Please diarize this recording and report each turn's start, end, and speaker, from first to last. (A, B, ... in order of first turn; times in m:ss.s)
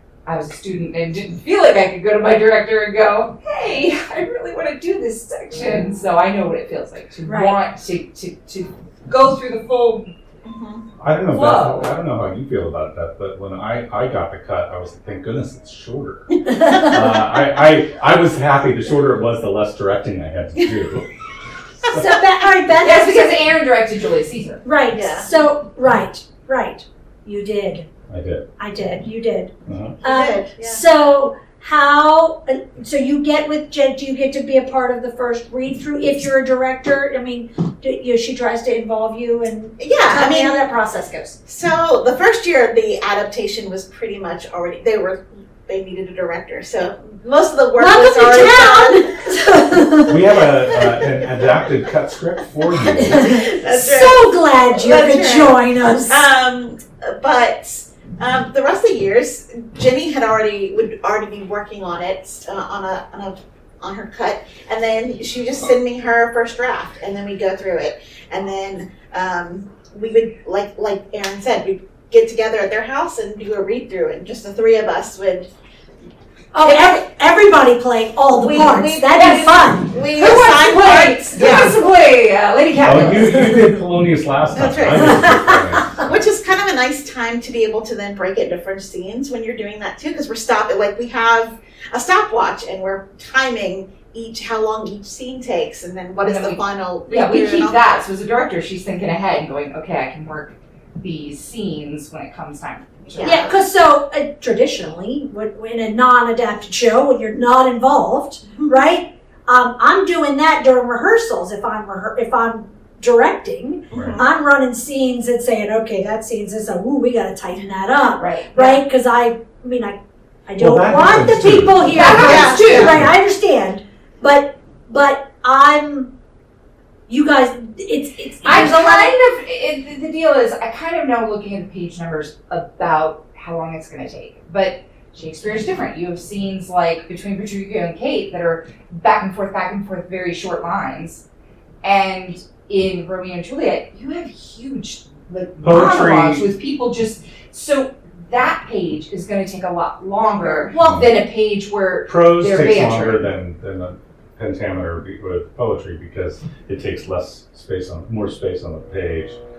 0:00.2-0:10.1 A
0:07.2-0:07.6 B
0:10.4-0:10.8 C
0:11.0-0:16.3 D
0:11.3-0:11.9 A
0:16.4-0:17.1 B
0:16.8-0:21.1 D
0:21.9-0:23.4 B
0:22.8-0:24.6 A
0:24.6-0:27.9 B
0:24.9-0:25.3 C
0:28.1-0:28.5 D
0:28.6-0:41.4 B
0:29.6-0:30.0 D
0:30.0-0:30.8 C
0:39.8-0:40.6 C
0:41.4-0:49.3 C
0:47.8-0:50.2 B
0:50.1-0:53.4 D
0:53.0-0:56.2 B
0:53.0-1:15.5 C
1:16.5-1:19.9 B
1:16.6-1:16.9 C
1:18.3-1:21.8 C
1:19.1-1:23.6 A
1:22.8-1:26.2 D
1:24.5-1:25.4 C
1:24.9-1:25.6 B
1:25.9-1:37.8 C
1:36.2-1:43.5 A
1:43.1-1:43.6 C
1:43.2-2:06.1 B
1:53.9-1:54.2 D
1:53.9-1:54.2 C
1:58.2-1:58.8 A
2:00.6-2:02.2 D
2:01.9-2:03.0 A
2:02.1-2:02.9 C
2:07.1-2:09.1 B
2:08.4-2:21.2 A
2:21.8-2:33.2 A
2:25.6-2:26.4 D
2:30.2-2:30.7 C
2:30.8-2:31.2 D
2:32.1-2:39.4 D